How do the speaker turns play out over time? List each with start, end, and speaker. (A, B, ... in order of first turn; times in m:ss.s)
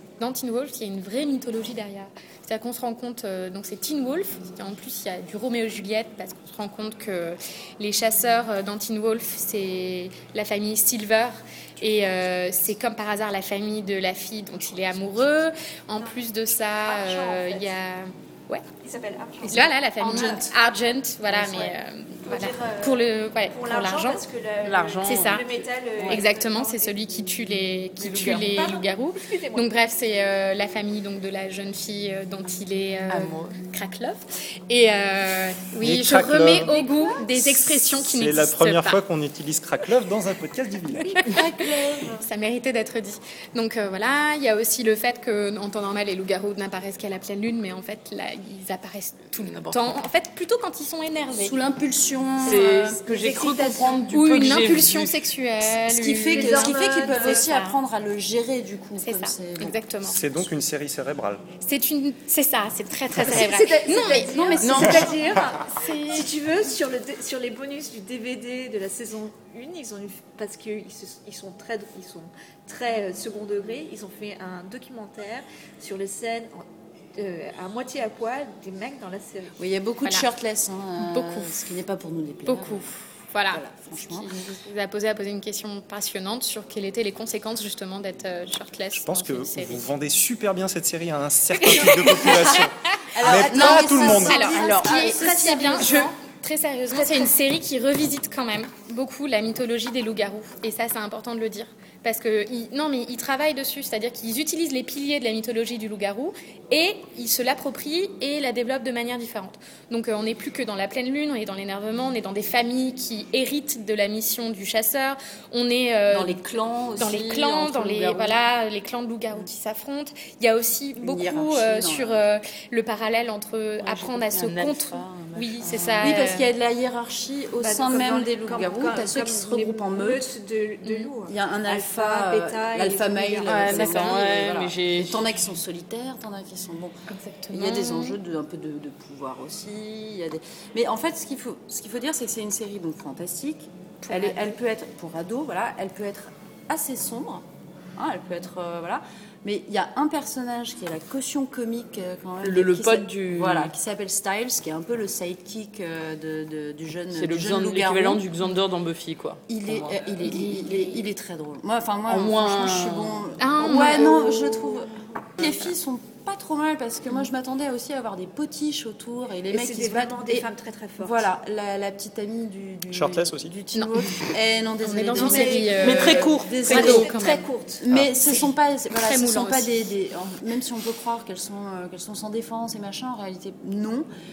0:00.2-0:18.6 A
0:16.8-0:17.7 B
0:18.8-0:20.5 B
0:19.4-0:24.2 A
0:20.1-0:20.4 C
0:21.3-0:21.7 B
0:22.2-0:27.0 B
0:24.6-0:26.2 D
0:25.0-0:25.5 A
0:26.0-0:39.0 A
0:28.0-0:28.5 D
0:28.4-0:29.7 B
0:33.1-0:33.6 D
0:35.8-0:41.2 E
0:41.2-0:41.5 A
0:41.2-0:42.2 C
0:42.2-0:51.6 A
0:49.4-0:49.8 D
0:51.3-0:53.0 C
0:52.4-0:55.1 D
0:52.4-0:54.7 B
0:54.1-0:57.8 A
0:55.8-0:59.8 C
0:56.2-0:57.5 B
0:59.0-1:00.2 A
1:00.0-1:01.5 E
1:01.6-1:05.1 A
1:03.2-1:16.6 B
1:04.3-1:05.2 C
1:04.6-1:05.1 D
1:05.7-1:06.2 A
1:17.2-1:19.5 B
1:19.6-1:22.8 C
1:21.0-1:21.6 A
1:22.4-1:29.8 A
1:23.5-1:24.3 C
1:29.0-1:34.5 E
1:31.7-1:32.6 A
1:33.1-1:36.0 C
1:33.2-1:56.4 A
1:34.1-1:36.1 B
1:34.5-1:35.0 D
1:35.8-1:36.1 D
1:36.9-1:37.3 B
1:56.1-1:58.3 C
1:57.0-2:06.5 A
2:01.0-2:02.2 C
2:03.8-2:06.1 D
2:06.0-2:10.3 C
2:07.6-2:14.2 B
2:10.8-2:11.1 A
2:11.2-2:17.0 C
2:13.4-2:15.2 D
2:17.1-2:18.2 A
2:17.5-2:27.4 C
2:28.0-2:38.2 C
2:32.4-2:33.7 D
2:37.1-2:40.9 D
2:39.5-2:57.2 C
2:42.1-2:44.0 D
2:43.4-2:44.7 A
2:49.5-2:51.2 B
2:52.9-2:53.5 E
2:53.7-2:54.1 A
2:54.8-2:57.5 A
2:55.1-2:57.8 B
2:55.8-2:57.0 D
2:57.8-3:04.0 C
2:58.3-2:59.9 A